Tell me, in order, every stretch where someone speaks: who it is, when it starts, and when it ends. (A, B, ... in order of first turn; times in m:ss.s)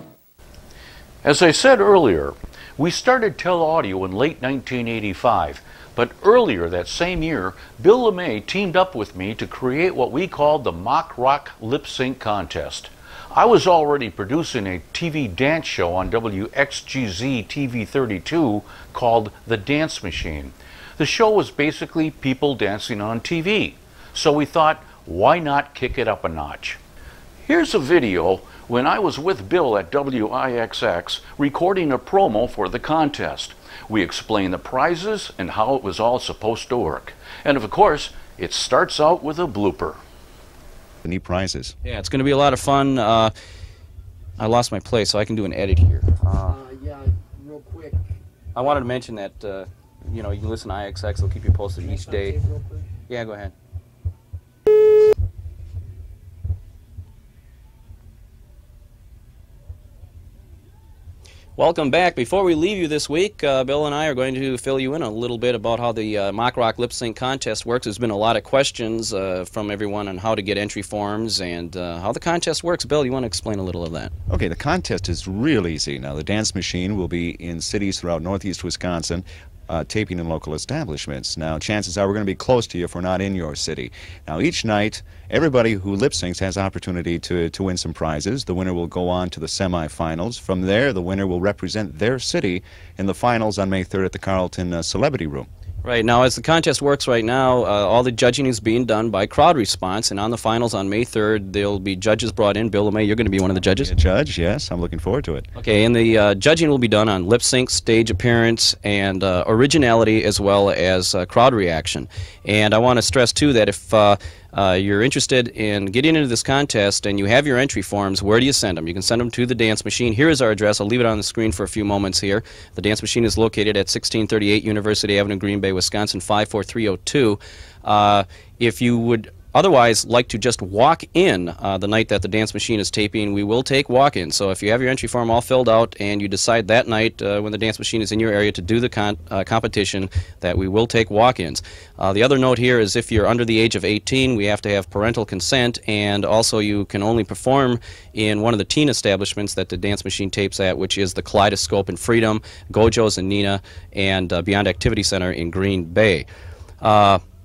0:01.2-0:26.8 A
0:27.4-0:40.0 A
0:41.0-0:41.7 B
0:41.8-0:43.3 C
0:44.4-0:46.6 C
0:48.5-0:52.5 C
0:53.1-0:53.5 C
1:01.6-1:14.1 C
1:14.3-1:35.5 B
1:35.8-1:43.9 C
1:43.6-1:45.5 B
1:45.6-2:36.3 C
2:36.8-2:37.2 C